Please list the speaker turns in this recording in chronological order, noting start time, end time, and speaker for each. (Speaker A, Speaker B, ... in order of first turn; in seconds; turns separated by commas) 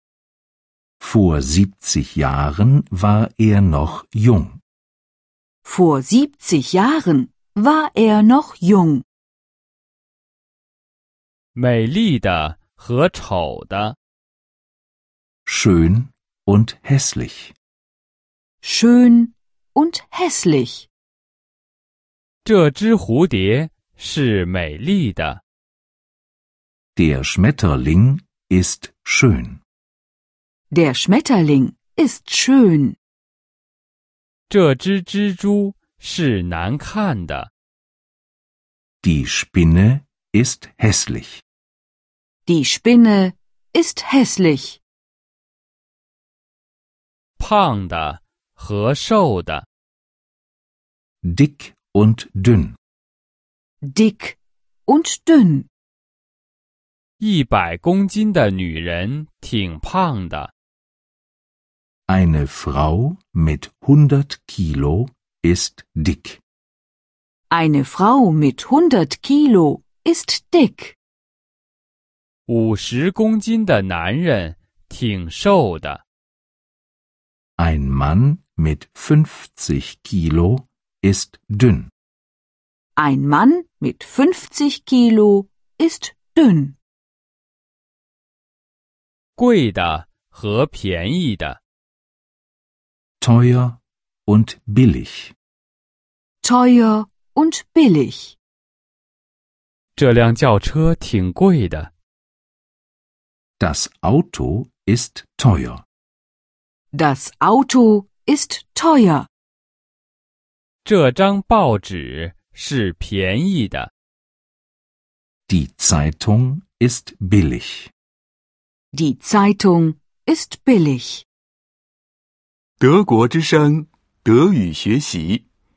Speaker A: 1.0-4.6, Speaker B: 5.6-9.0, Speaker C: 11.5-13.9, Speaker A: 15.4-17.5, Speaker B: 18.6-20.9, Speaker C: 22.4-25.4, Speaker A: 26.9-29.6, Speaker B: 30.7-33.0, Speaker C: 34.5-37.5, Speaker A: 39.0-41.4, Speaker B: 42.5-44.8, Speaker C: 47.4-49.6, Speaker A: 51.2-52.8, Speaker B: 53.8-55.7, Speaker C: 57.2-60.5, Speaker A: 62.1-66.4, Speaker B: 67.5-71.0, Speaker C: 72.5-76.0, Speaker A: 77.6-81.9, Speaker B: 83.0-86.8, Speaker C: 89.4-91.6, Speaker A: 93.2-95.3, Speaker B: 96.4-98.3, Speaker C: 100.0-101.9, Speaker A: 103.6-105.8, Speaker B: 106.9-109.3, Speaker C: 110.8-113.9, Speaker A: 115.5-117.9, Speaker B: 118.9-121.2, Speaker D: 122.8-125.4